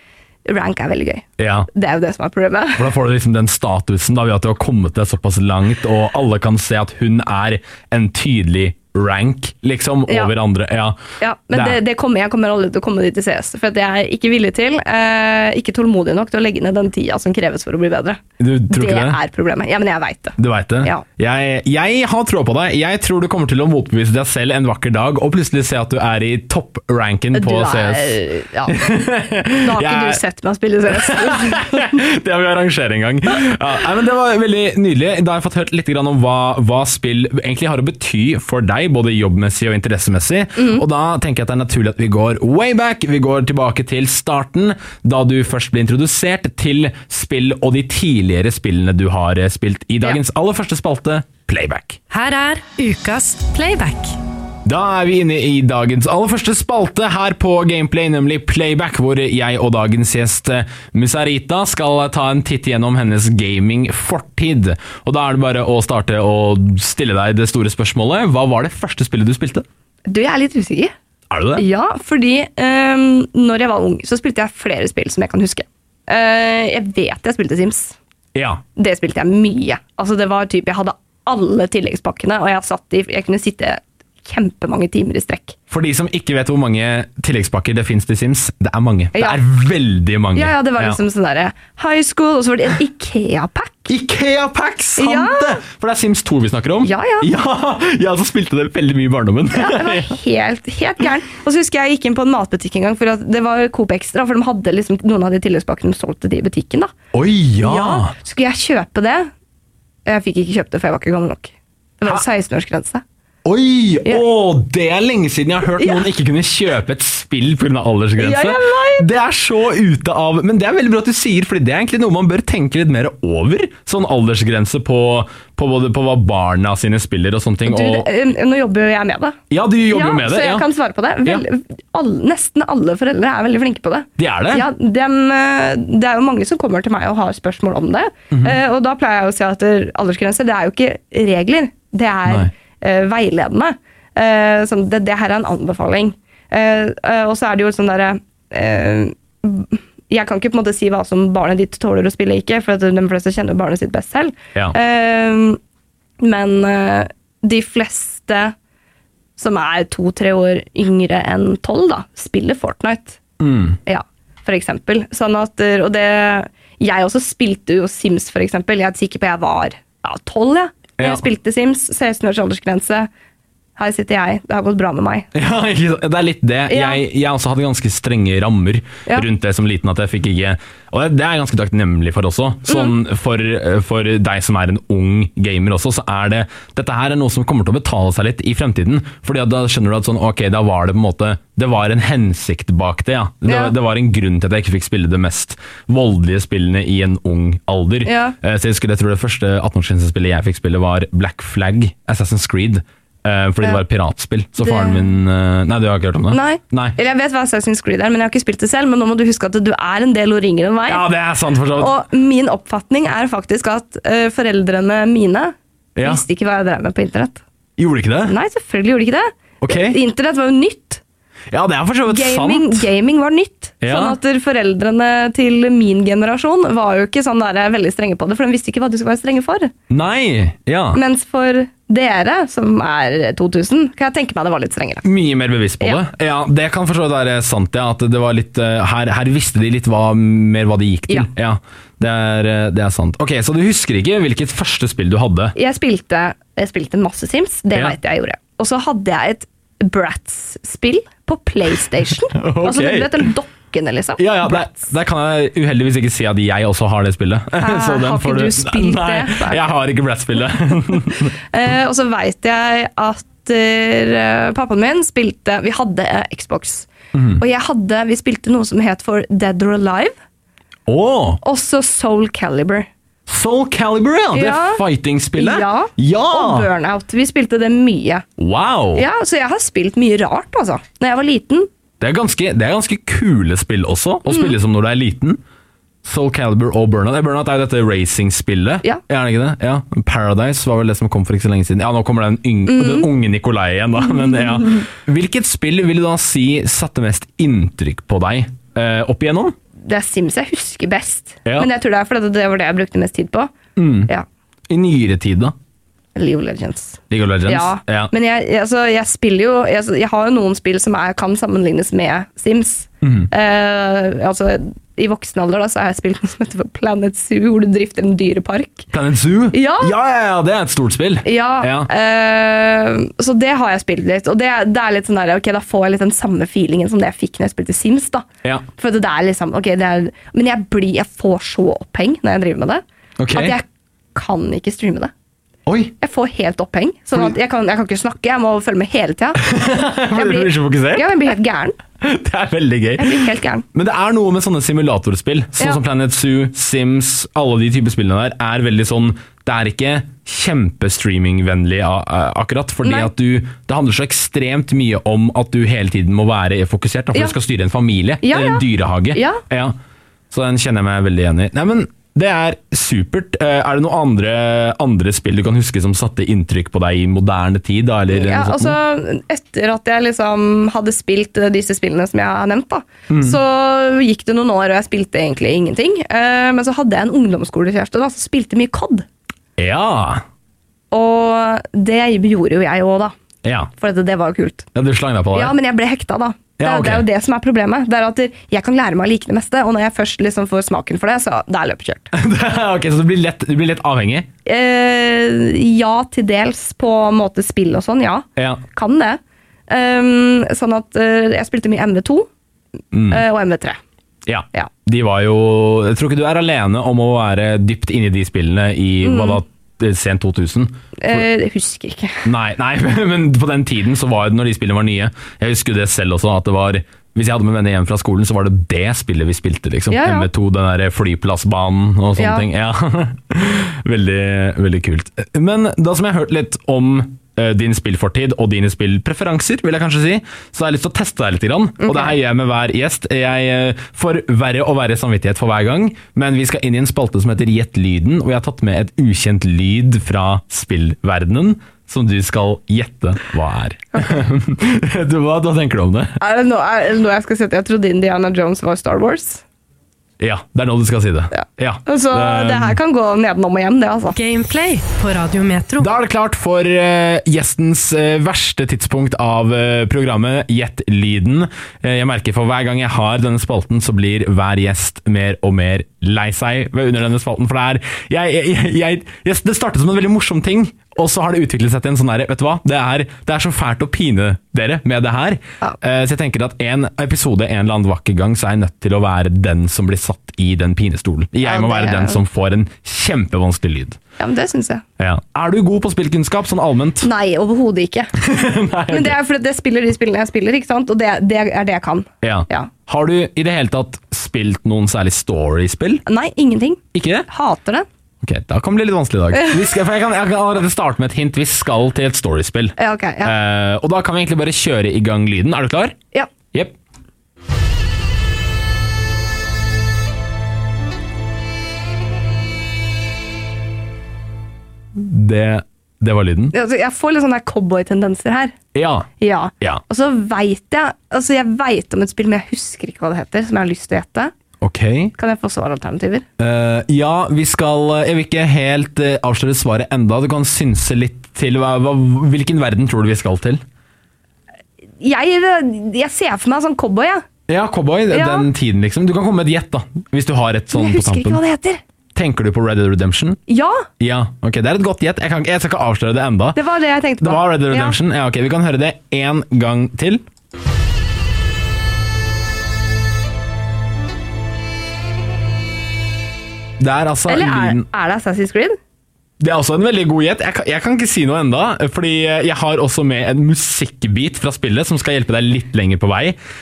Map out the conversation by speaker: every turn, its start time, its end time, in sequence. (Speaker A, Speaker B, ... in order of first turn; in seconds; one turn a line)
Speaker A: 0.5-2.9
Speaker B: 1.4-1.7
Speaker B: 2.8-11.0
Speaker A: 10.1-10.3
Speaker A: 11.2-21.0
Speaker B: 11.5-11.8
Speaker B: 18.4-19.2
Speaker B: 20.4-30.2
Speaker A: 27.3-28.8
Speaker A: 29.6-32.0
Speaker B: 30.9-52.0
Speaker A: 40.6-40.8
Speaker C: 52.1-54.2
Speaker B: 54.6-69.7
Speaker A: 70.1-70.9
Speaker B: 71.3-71.6
Speaker A: 71.6-78.0
Speaker B: 78.3-78.6
Speaker A: 78.8-85.6
Speaker B: 85.7-91.0
Speaker A: 89.1-89.4
Speaker A: 90.3-93.9
Speaker B: 93.9-100.2
Speaker A: 95.0-95.6
Speaker A: 96.8-97.3
Speaker A: 99.5-106.9
Speaker B: 107.1-108.1
Speaker A: 107.6-109.3
Speaker A: 110.1-113.0
Speaker B: 113.5-128.1
Speaker A: 115.8-116.0
Speaker A: 118.2-119.1
Speaker A: 127.7-155.6
Speaker B: 129.5-130.7
Speaker B: 134.2-134.7
Speaker B: 138.3-138.6
Speaker A: 156.2-158.6
Speaker A: 159.4-163.2
Speaker B: 163.4-163.8
Speaker A: 163.9-173.1
Speaker B: 171.0-171.2
Speaker A: 173.8-175.3
Speaker B: 175.3-207.0
Speaker A: 176.7-177.0
Speaker A: 182.7-182.9
Speaker A: 193.5-193.7
Speaker A: 198.1-198.4
Speaker A: 204.6-205.1
Speaker A: 206.3-211.0
Speaker B: 210.9-211.9
Speaker A: 211.8-217.4
Speaker B: 216.0-216.2
Speaker B: 217.8-218.3
Speaker A: 218.3-221.0
Speaker B: 219.6-220.0
Speaker B: 221.5-222.9
Speaker A: 222.1-229.7
Speaker B: 223.8-224.2
Speaker B: 229.9-231.0
Speaker A: 230.9-235.1
Speaker B: 235.0-245.6
Speaker A: 245.6-254.9
Speaker B: 252.3-253.3
Speaker B: 254.2-261.4
Speaker A: 257.6-259.7
Speaker A: 261.1-270.1
Speaker B: 267.1-267.4
Speaker B: 270.9-271.4
Speaker A: 271.4-272.9
Speaker B: 273.3-276.7
Speaker A: 274.3-274.8
Speaker A: 275.4-278.2
Speaker B: 278.4-279.1
Speaker A: 278.9-281.7
Speaker B: 282.0-285.4
Speaker A: 284.3-284.5
Speaker B: 286.0-299.6
Speaker A: 292.7-293.1
Speaker A: 299.8-303.5
Speaker B: 303.8-304.1
Speaker B: 304.7-305.5
Speaker A: 306.1-318.9
Speaker B: 307.1-308.1
Speaker B: 313.0-313.3
Speaker B: 318.9-321.9
Speaker A: 319.5-319.9
Speaker A: 321.2-335.1
Speaker B: 333.2-333.6
Speaker B: 335.7-335.9
Speaker A: 336.0-339.4
Speaker B: 339.4-341.1
Speaker A: 340.1-341.8
Speaker B: 342.0-359.8
Speaker A: 343.0-343.7
Speaker A: 352.8-353.1
Speaker A: 358.2-359.4
Speaker B: 360.3-368.8
Speaker A: 368.1-379.1
Speaker B: 373.1-373.4
Speaker B: 379.6-380.2
Speaker A: 380.9-383.1
Speaker B: 383.4-383.7
Speaker A: 383.8-384.7
Speaker B: 384.8-385.5
Speaker A: 385.3-392.1
Speaker B: 386.6-387.1
Speaker B: 392.1-394.3
Speaker A: 394.4-402.3
Speaker B: 398.4-398.6
Speaker B: 402.9-403.2
Speaker A: 403.1-403.8
Speaker B: 404.3-411.3
Speaker A: 409.0-409.4
Speaker A: 411.0-412.2
Speaker B: 412.2-446.2
Speaker A: 419.9-420.3
Speaker A: 422.2-422.4
Speaker A: 431.8-432.1
Speaker A: 446.2-449.4
Speaker B: 450.2-452.8
Speaker A: 451.3-454.2
Speaker C: 454.1-455.9
Speaker B: 455.8-484.0
Speaker A: 481.4-482.2
Speaker A: 484.2-484.8
Speaker B: 485.0-487.1
Speaker A: 487.0-488.1
Speaker B: 488.2-489.2
Speaker A: 488.9-492.7
Speaker B: 492.2-496.0
Speaker A: 496.1-497.9
Speaker B: 496.9-497.3
Speaker B: 498.2-506.0
Speaker A: 502.8-503.3
Speaker B: 514.9-516.5
Speaker A: 516.5-518.6
Speaker B: 518.7-519.1
Speaker A: 519.2-524.3
Speaker B: 524.6-525.1
Speaker A: 525.2-526.3
Speaker B: 526.4-533.6
Speaker A: 535.0-537.2
Speaker B: 537.5-541.4
Speaker A: 538.1-538.5
Speaker A: 540.7-541.8
Speaker B: 542.1-543.4
Speaker A: 543.5-543.9
Speaker B: 544.0-546.6
Speaker A: 546.6-548.0
Speaker B: 547.2-550.2
Speaker B: 556.8-557.9
Speaker A: 557.3-558.8
Speaker B: 559.4-566.4